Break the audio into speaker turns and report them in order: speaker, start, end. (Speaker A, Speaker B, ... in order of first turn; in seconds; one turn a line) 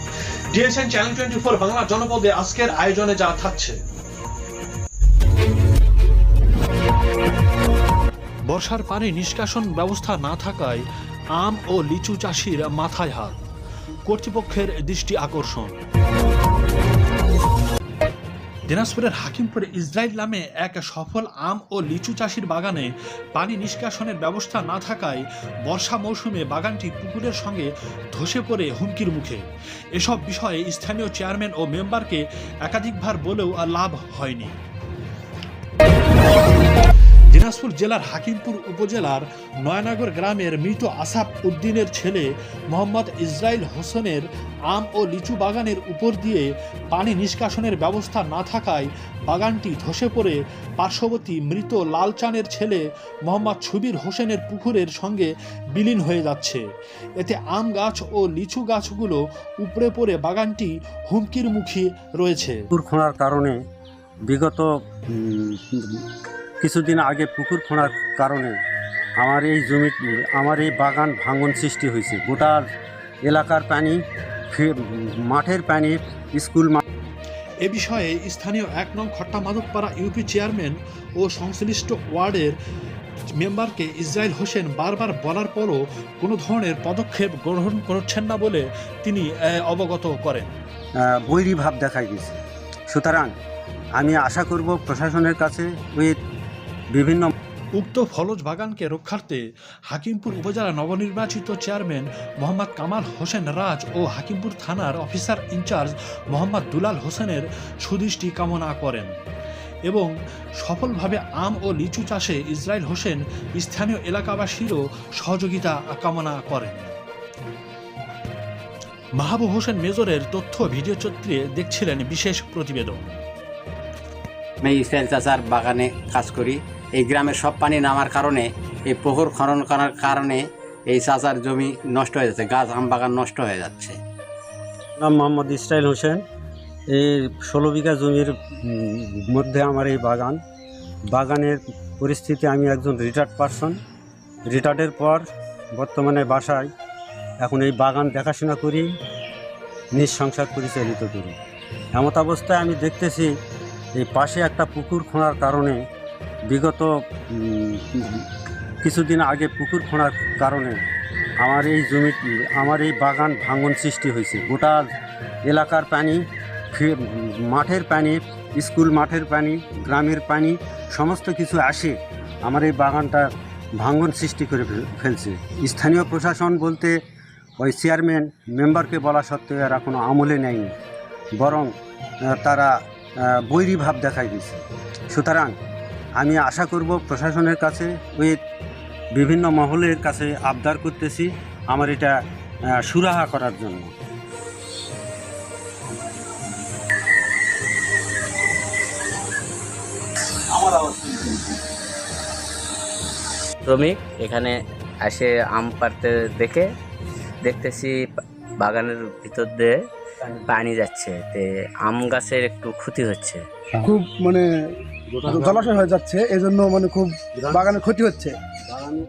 Speaker A: 0.5-3.8
Speaker A: 8.5-10.8
Speaker A: 11.4-13.4
Speaker A: 14.1-15.8
Speaker A: 18.7-34.6
Speaker A: 37.3-56.6
Speaker A: 57.2-62.6
Speaker B: 62.7-63.6
Speaker B: 64.3-66.0
Speaker B: 66.6-68.5
Speaker B: 69.2-72.6
Speaker B: 73.2-76.8
Speaker A: 77.6-82.6
Speaker A: 83.4-90.5
Speaker B: 91.0-92.4
Speaker B: 92.9-93.3
Speaker B: 94.0-96.2
Speaker B: 96.9-97.3
Speaker A: 97.8-109.2
Speaker A: 109.9-117.0
Speaker A: 119.2-123.2
Speaker C: 124.6-134.0
Speaker B: 135.0-136.2
Speaker B: 136.9-140.4
Speaker B: 141.1-143.8
Speaker B: 144.5-145.2
Speaker B: 145.8-146.7
Speaker B: 147.4-148.9
Speaker B: 149.9-151.3
Speaker B: 151.9-153.3
Speaker B: 154.0-155.8
Speaker B: 156.5-158.2
Speaker B: 158.8-160.8
Speaker B: 161.4-164.8
Speaker B: 165.5-166.2
Speaker B: 166.7-173.3
Speaker B: 173.8-177.0
Speaker B: 177.6-180.7
Speaker B: 181.4-181.7
Speaker B: 182.3-182.7
Speaker B: 183.2-185.6
Speaker B: 186.2-188.4
Speaker B: 189.2-192.2
Speaker B: 192.8-193.9
Speaker B: 200.6-201.5
Speaker D: 203.7-206.7
Speaker D: 207.4-208.0
Speaker D: 208.6-209.8
Speaker D: 210.5-213.4
Speaker E: 213.8-214.5
Speaker B: 215.2-215.7
Speaker E: 215.2-218.4